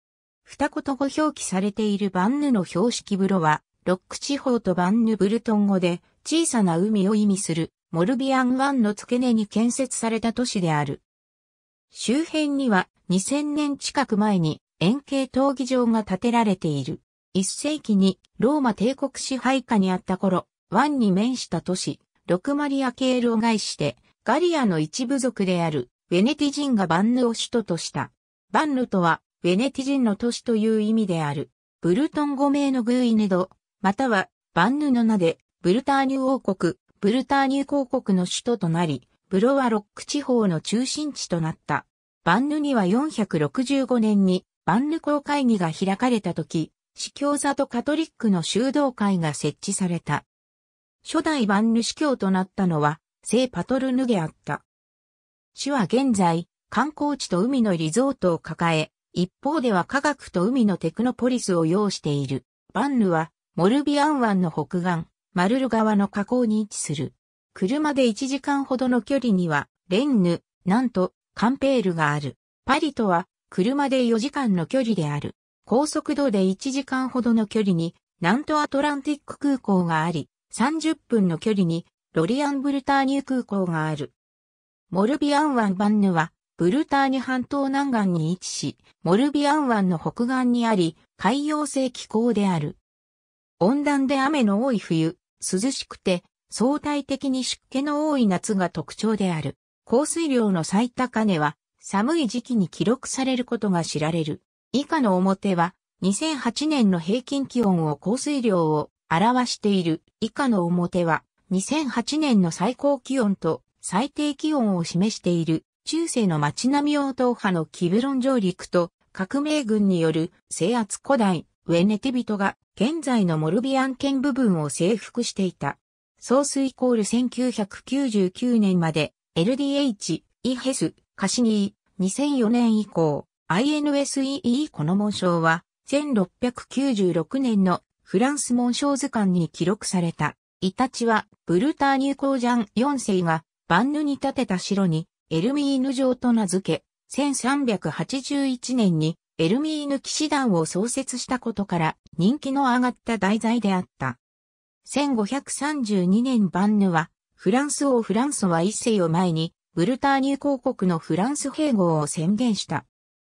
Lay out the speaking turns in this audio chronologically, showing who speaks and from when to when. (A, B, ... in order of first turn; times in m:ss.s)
0:00.4-0:11.0 A
0:11.9-0:50.3 A
0:51.0-0:54.6 A
0:55.6-1:24.1 A
1:24.9-1:32.8 A
1:33.6-2:34.2 A
2:34.8-2:42.9 A